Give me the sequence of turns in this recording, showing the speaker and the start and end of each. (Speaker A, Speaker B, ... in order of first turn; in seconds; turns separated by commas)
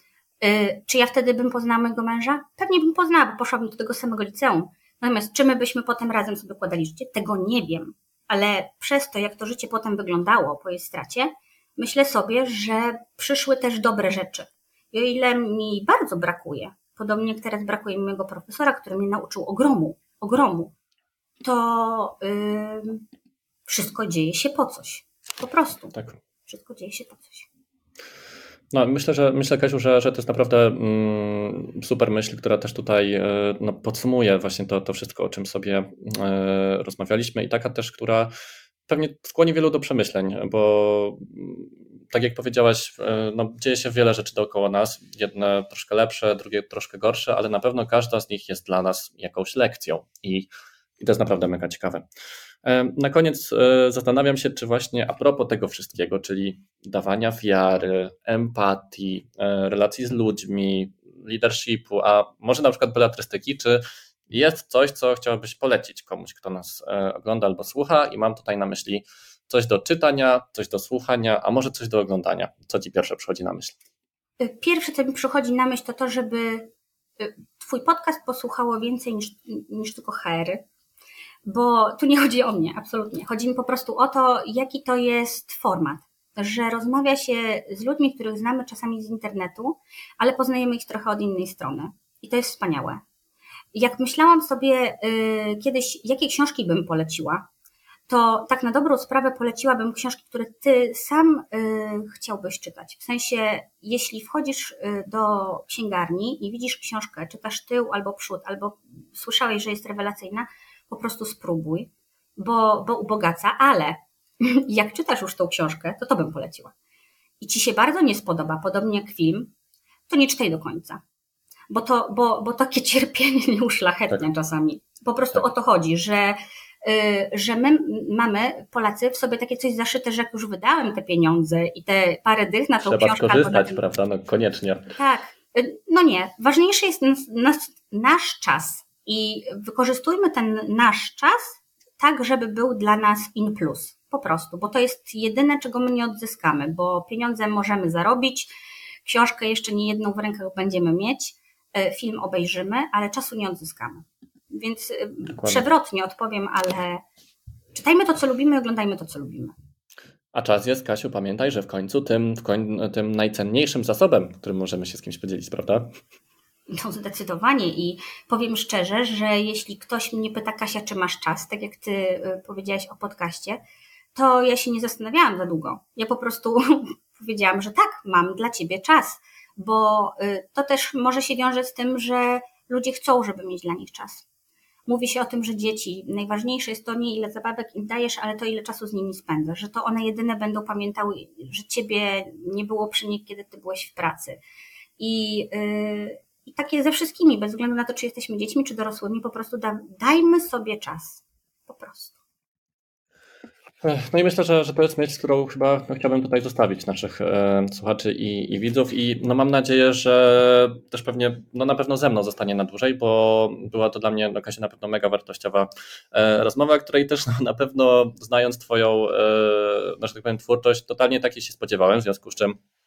Speaker A: 0.4-20.7, Speaker A: 21.4-23.0, Speaker A: 23.7-25.9, Speaker A: 26.5-27.5, Speaker B: 28.7-38.3, Speaker B: 38.9-52.0, Speaker B: 52.6-73.8, Speaker A: 74.4-80.6, Speaker A: 81.5-93.0, Speaker A: 93.7-97.5, Speaker A: 98.1-116.7, Speaker A: 117.4-119.5, Speaker A: 120.1-121.0, Speaker A: 121.7-133.8, Speaker B: 132.8-134.9, Speaker A: 134.9-148.5, Speaker A: 149.1-157.0, Speaker B: 155.4-155.7, Speaker A: 157.7-159.5, Speaker B: 160.3-165.9, Speaker A: 166.7-173.6, Speaker A: 174.2-184.2, Speaker A: 184.9-194.4, Speaker A: 195.0-202.2, Speaker B: 203.8-222.6